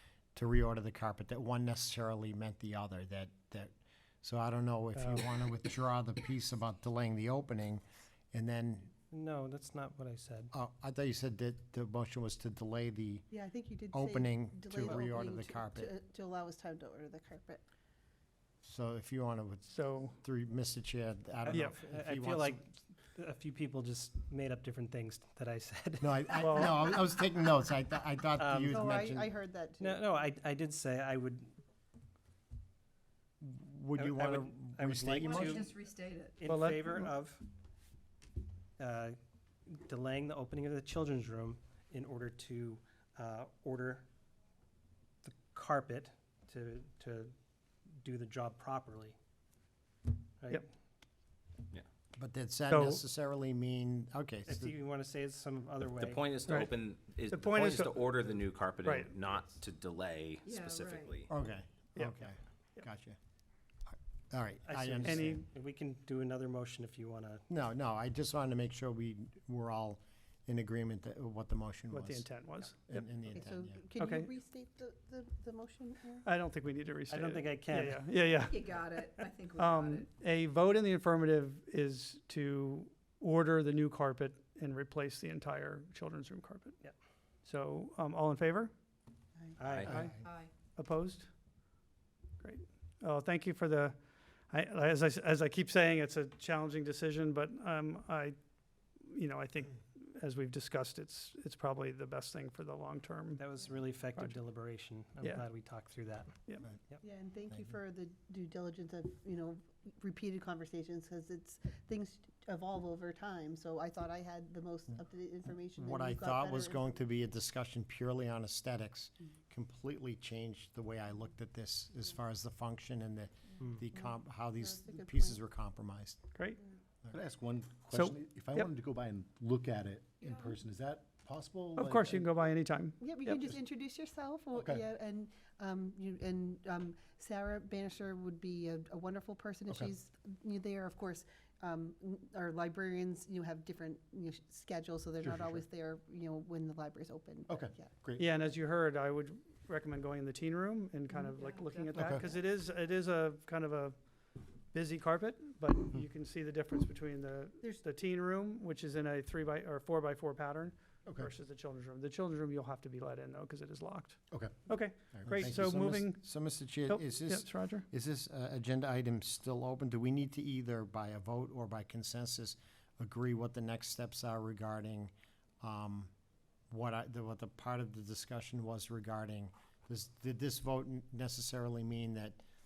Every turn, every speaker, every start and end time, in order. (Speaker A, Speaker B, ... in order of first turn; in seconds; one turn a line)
Speaker A: 0.3-8.9
Speaker B: 5.0-5.2
Speaker C: 9.1-10.5
Speaker A: 10.5-13.3
Speaker D: 13.3-17.6
Speaker A: 13.9-15.9
Speaker A: 18.6-22.6
Speaker B: 19.7-20.2
Speaker C: 21.5-26.5
Speaker B: 21.5-21.8
Speaker A: 26.0-29.3
Speaker B: 26.4-26.8
Speaker C: 28.4-29.1
Speaker D: 28.7-30.1
Speaker C: 29.8-31.6
Speaker A: 33.4-35.7
Speaker C: 34.0-37.4
Speaker E: 35.3-36.4
Speaker B: 36.5-37.1
Speaker C: 38.8-39.2
Speaker C: 39.7-44.1
Speaker C: 45.2-47.3
Speaker C: 47.9-49.2
Speaker C: 50.4-50.7
Speaker A: 52.1-54.8
Speaker B: 52.7-53.0
Speaker C: 54.5-56.3
Speaker F: 56.0-61.3
Speaker B: 57.3-58.1
Speaker B: 58.8-59.1
Speaker E: 60.4-61.2
Speaker A: 61.3-63.2
Speaker B: 62.0-62.2
Speaker A: 63.9-65.4
Speaker C: 64.7-67.5
Speaker B: 65.0-65.3
Speaker A: 67.5-73.8
Speaker B: 71.9-72.9
Speaker D: 73.3-76.3
Speaker B: 74.0-74.3
Speaker B: 76.2-78.7
Speaker C: 77.1-78.2
Speaker E: 78.4-80.1
Speaker B: 79.6-86.8
Speaker B: 87.5-88.7
Speaker C: 89.6-90.2
Speaker A: 89.9-90.2
Speaker B: 89.9-90.2
Speaker E: 90.2-90.5
Speaker B: 90.8-91.3
Speaker B: 92.4-94.0
Speaker B: 94.5-98.4
Speaker B: 99.0-103.4
Speaker C: 103.4-106.4
Speaker B: 105.2-105.5
Speaker D: 107.0-116.8
Speaker A: 115.8-126.2
Speaker D: 124.0-125.4
Speaker B: 126.3-126.6
Speaker G: 127.1-132.3
Speaker B: 127.9-128.7
Speaker B: 131.8-133.4
Speaker D: 133.0-147.9
Speaker G: 134.6-134.8
Speaker G: 145.2-145.6
Speaker G: 147.5-148.2
Speaker B: 148.2-153.9
Speaker E: 151.4-152.1
Speaker G: 151.9-152.3
Speaker B: 154.7-167.8
Speaker G: 161.1-161.3
Speaker G: 164.3-165.5
Speaker A: 165.2-176.1
Speaker A: 176.7-182.4